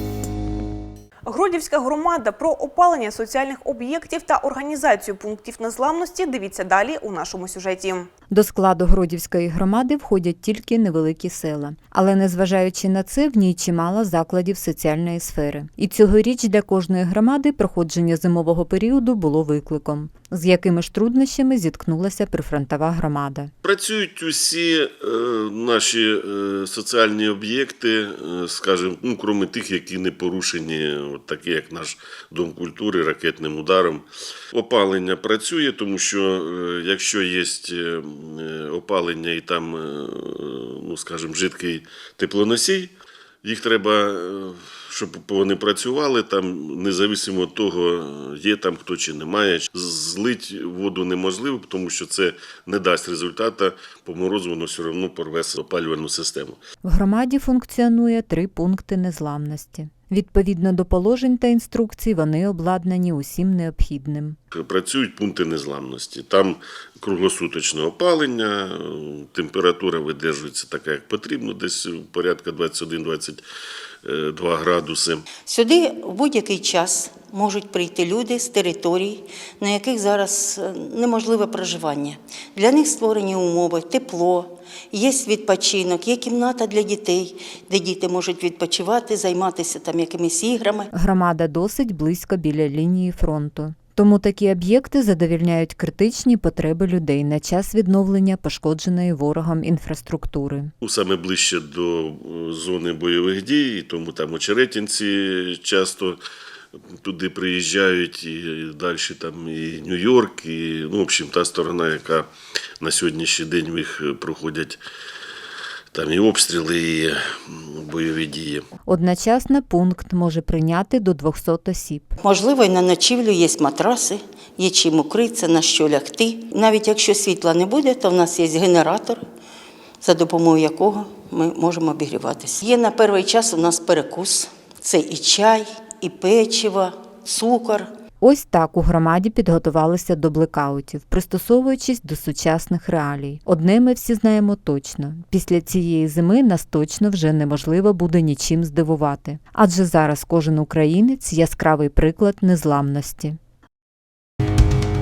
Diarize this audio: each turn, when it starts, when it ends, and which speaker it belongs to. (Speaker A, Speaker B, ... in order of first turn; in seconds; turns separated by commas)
Speaker A: 1.2-8.1, Speaker B: 8.3-23.5, Speaker C: 23.6-42.9, Speaker C: 43.4-56.6, Speaker B: 56.8-64.4, Speaker C: 64.5-73.4, Speaker C: 74.0-75.2, Speaker D: 75.5-90.9, Speaker B: 90.9-100.7, Speaker C: 100.8-106.2, Speaker C: 106.9-112.3, Speaker C: 112.8-114.8, Speaker C: 115.9-118.7, Speaker B: 118.9-122.2, Speaker D: 122.2-129.2, Speaker D: 130.0-137.9, Speaker B: 138.2-153.4